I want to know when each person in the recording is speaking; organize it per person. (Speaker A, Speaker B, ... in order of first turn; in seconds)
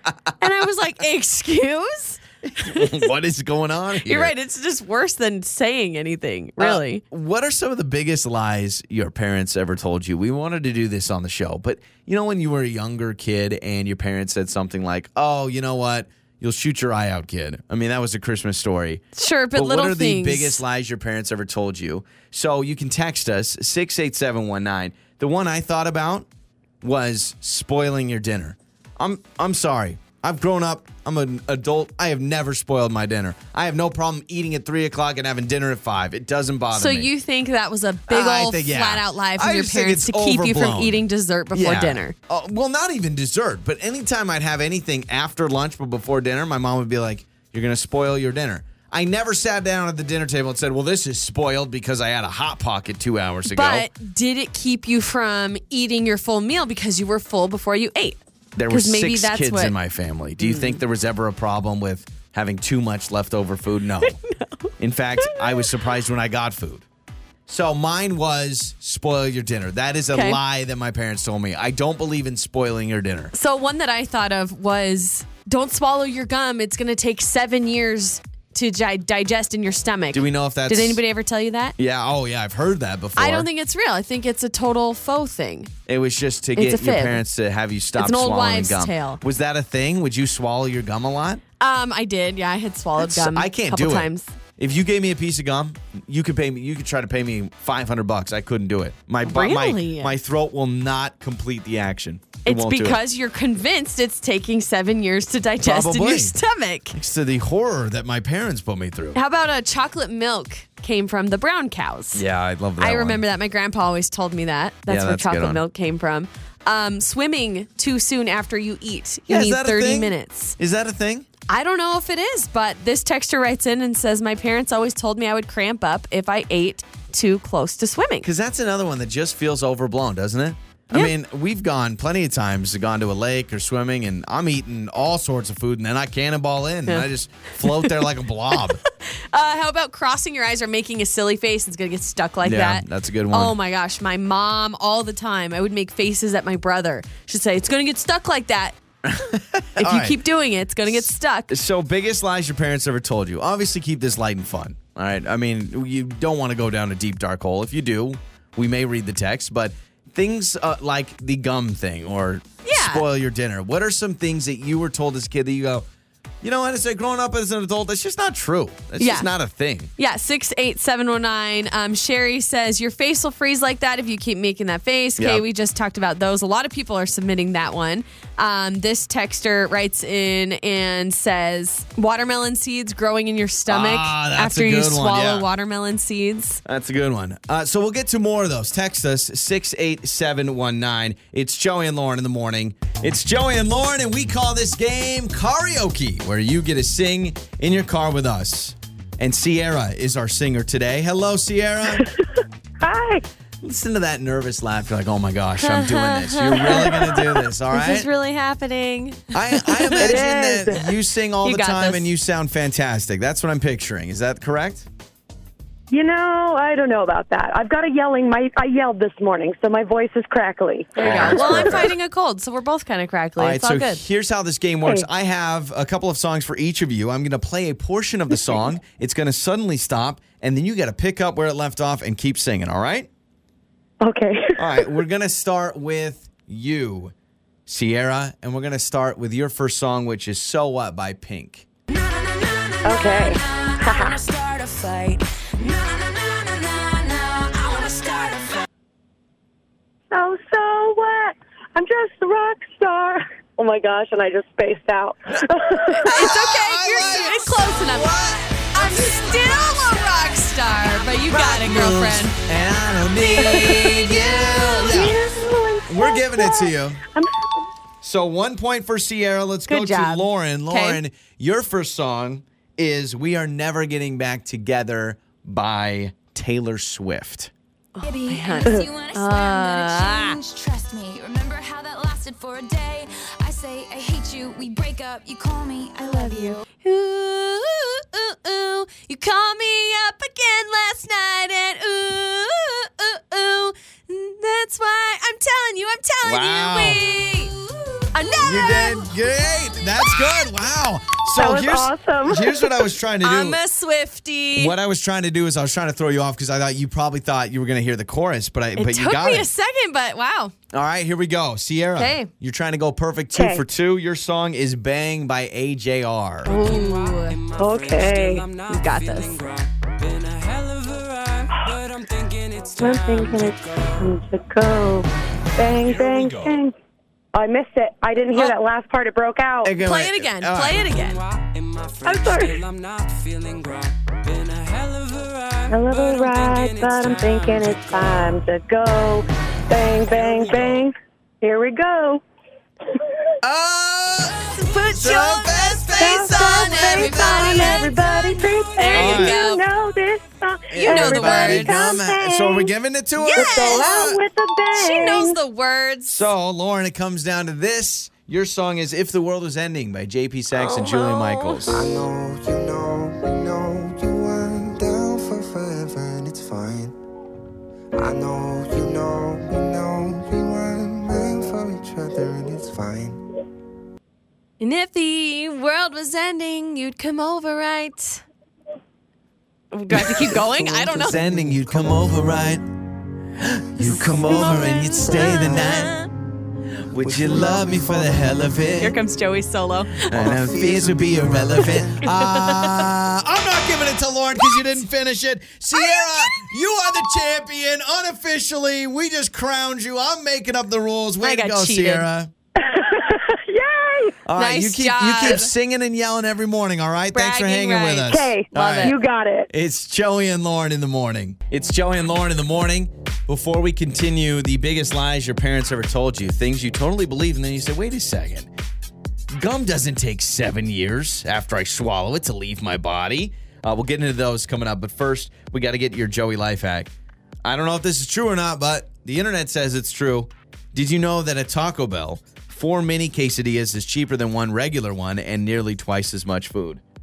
Speaker A: 0.4-3.1, 4.0-7.0, 19.1-20.6, 36.7-42.1, 53.5-59.7, 60.4-60.8, 64.0-65.6, 70.1-70.4, 73.3-81.8, 83.2-85.7, 86.5-87.2, 88.0-89.2, 91.6-94.3, 99.2-100.2, 102.4-107.0, 109.1-112.2, 112.8-120.6, 121.5-128.3, 137.6-148.8, 149.8-151.5, 162.6-163.1, 169.0-169.3, 170.0-186.6, 205.6-210.3, 211.4-212.1, 220.9-224.0, 255.8-262.3, 263.2-264.8, 269.7-271.0, 277.9-280.4, 286.1-299.1, 303.2-304.8, 308.8-310.5, 311.9-312.3, 316.4-317.4, 318.6-319.4, 329.8-331.2, 344.6-348.1, 348.8-349.6, 350.8-351.8, 353.2-354.0, 354.7-356.3, 360.5-361.8, 374.6-378.2, 379.7-381.3, 383.9-386.1, 388.8-390.3, 392.0-392.7, 395.7-396.5, 401.2-402.1, 404.4-405.5, 407.1-409.0
Speaker B: 2.4-4.3, 6.6-26.3, 26.8-37.1, 38.1-53.9, 58.5-64.2, 64.8-66.8, 67.5-73.3, 80.1-81.0, 81.8-83.5, 85.9-91.4, 93.0-103.0, 105.6-106.3, 106.9-109.2, 112.1-113.2, 114.9-115.6, 119.3-121.3, 128.2-138.8, 142.4-143.6, 149.0-150.2, 150.9-165.9, 166.4-169.9, 175.2-175.4, 183.7-185.5, 186.6-202.1, 203.6-208.1, 209.3-214.9, 221.0-221.9, 223.4-233.1, 234.6-237.1, 237.7-241.7, 255.3-260.4, 261.3-265.2, 265.9-267.0, 268.0-277.5, 296.2-297.0, 298.4-303.6, 304.6-309.5, 310.7-316.6, 325.8-326.6, 329.6-330.9, 340.1-340.8, 343.4-347.9, 348.9-349.4, 350.7-354.2, 356.1-362.0, 380.0-382.6, 383.4-386.0, 386.9-389.0, 390.1-402.3, 404.2-409.0, 409.5-418.5, 419.3-426.9, 427.4-436.8
Speaker C: 202.8-203.2, 206.7-207.0, 209.9-210.9, 215.9-221.8, 234.0-234.9, 242.8-244.3, 250.1-256.3, 263.4-267.3, 301.3-302.9, 313.3-313.6, 317.5-318.5, 321.5-321.8, 322.7-326.7, 327.3-329.7, 332.0-332.6, 335.7-342.2, 345.9-352.7, 353.3-355.4, 402.6-404.2, 408.0-409.5
Speaker D: 244.8-245.1, 245.6-248.4, 278.0-286.6
Speaker E: 361.7-366.9, 367.9-373.2, 380.0-382.1, 383.8-385.8, 386.9-388.8, 390.1-392.1